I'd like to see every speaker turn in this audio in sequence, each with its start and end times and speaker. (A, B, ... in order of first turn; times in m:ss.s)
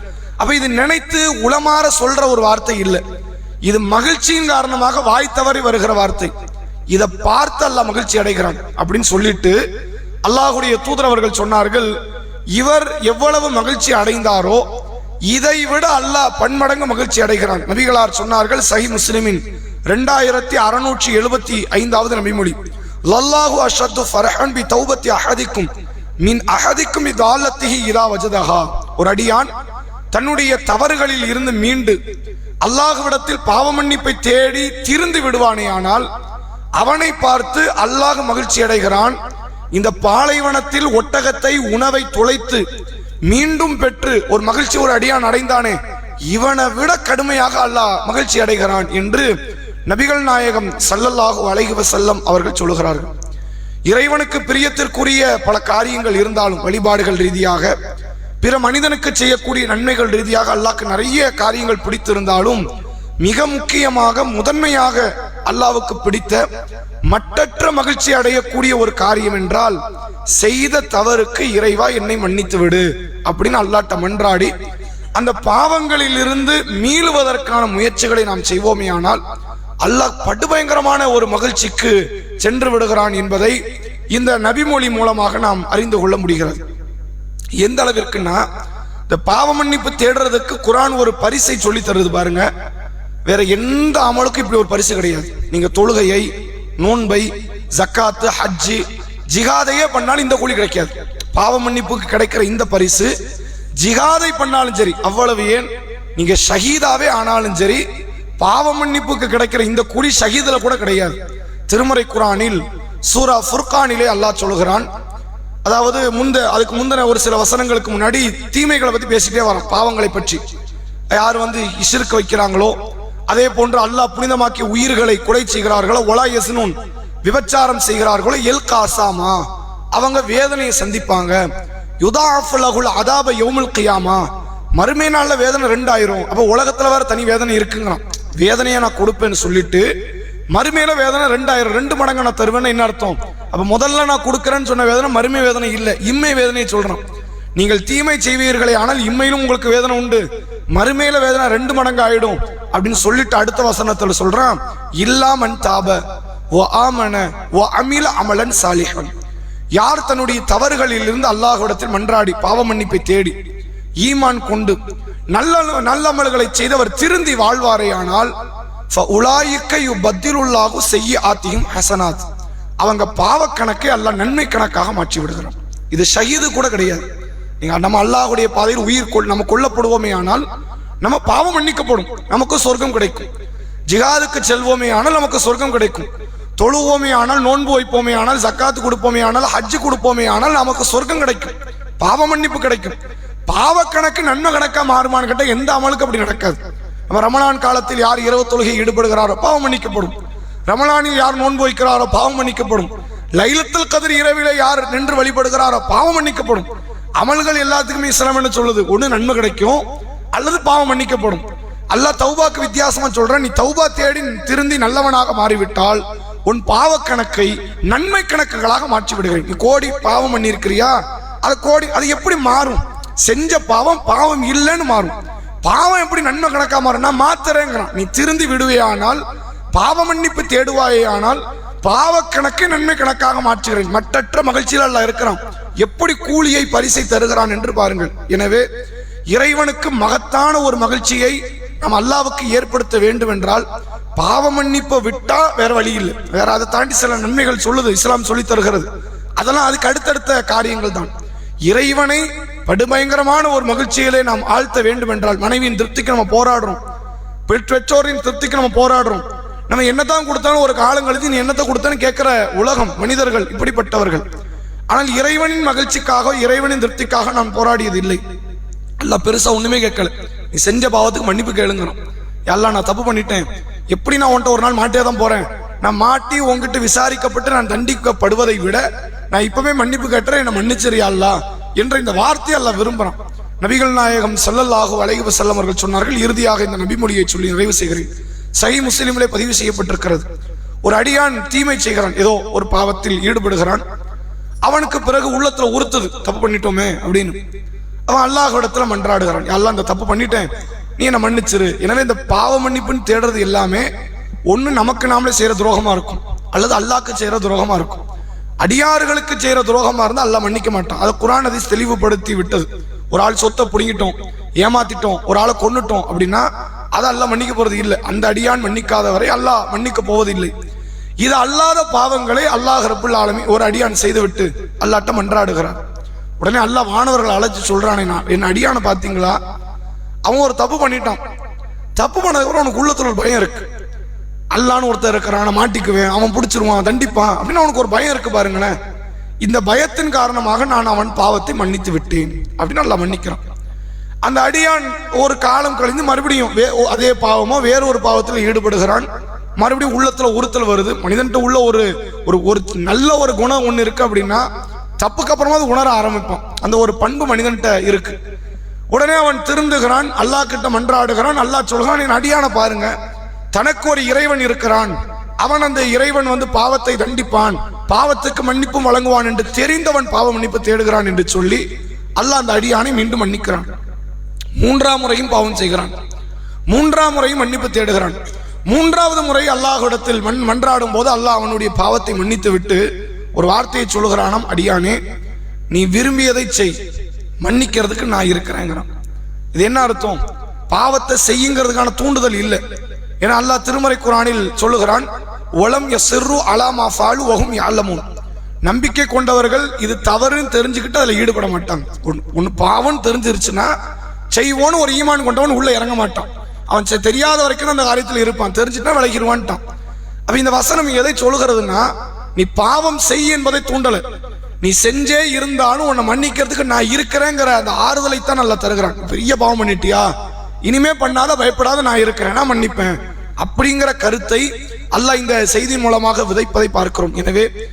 0:00.4-0:03.0 A
0:03.7-0:06.3 A
0:06.9-0:09.6 A
0:10.2-0:11.9 A
0:12.5-0:14.6 A
0:15.3-0:22.6 A
0:23.1-0:25.7 A
0:26.2-0:29.5 A
0:30.1-0:32.0 A
0:32.6-0:36.1 A
0:36.8-0:39.2 A
0:39.7-0:42.6 A
0:43.3-0:49.3 A
0:49.9-0:53.1 A
0:53.9-0:57.7 A
0:58.4-1:02.6 A
1:03.2-1:06.4 A
1:07.1-1:09.8 A
1:10.4-1:14.5 A
1:15.2-1:19.2 A
1:19.8-1:23.6 A
1:24.1-1:26.6 A
1:27.6-1:28.4 A
1:29.1-1:32.4 A
1:33.2-1:36.3 A
1:36.8-1:43.1 A
1:43.8-1:47.8 A
1:48.4-1:51.2 A
1:51.7-1:54.9 A
1:55.6-2:00.4 A
2:01.1-2:02.7 A
2:03.3-2:09.4 A
2:09.9-2:11.4 A
2:12.0-2:14.2 A
2:14.8-2:19.8 A
2:20.5-2:27.0 A
2:27.6-2:36.0 A
2:36.5-2:39.1 A
2:39.8-2:43.4 A
2:44.0-2:44.8 A
2:45.3-2:48.3 A
2:48.9-2:52.2 A
2:52.8-2:57.1 A
2:57.6-3:00.4 A
3:01.0-3:03.3 A
3:03.9-3:13.0 A
3:13.5-3:16.6 A
3:17.1-3:20.1 A
3:20.7-3:26.7 A
3:27.2-3:29.8 A
3:30.3-3:49.2 A
3:49.7-3:58.6 A
3:59.3-4:03.6 A
4:04.2-4:11.1 A
4:11.7-4:16.8 A
4:17.5-4:24.2 A
4:24.9-4:28.2 A
4:29.0-4:50.2 A
4:50.8-4:53.8 A
4:54.6-4:57.4 A
4:58.1-5:03.9 A
5:04.5-5:08.0 A
5:08.6-5:20.5 A
5:21.2-5:25.8 A
5:26.4-5:29.4 A
5:30.2-5:31.2 A
5:32.0-5:33.7 A
5:34.5-5:38.7 A
5:39.4-5:43.4 A
5:44.2-5:49.1 A
5:49.6-5:54.4 A
5:55.0-5:58.2 A
5:58.9-6:02.9 A
6:03.5-6:11.6 A
6:12.2-6:13.7 A
6:14.6-6:15.9 A
6:16.7-6:22.8 A
6:23.3-6:25.0 A
6:25.7-6:26.7 A
6:27.4-6:28.8 A
6:29.5-6:32.6 A
6:33.2-6:35.1 A
6:35.6-6:38.0 A
6:38.6-6:43.7 A
6:44.3-6:49.6 A
6:50.3-6:54.0 A
6:54.6-7:00.1 A
7:00.6-7:07.5 A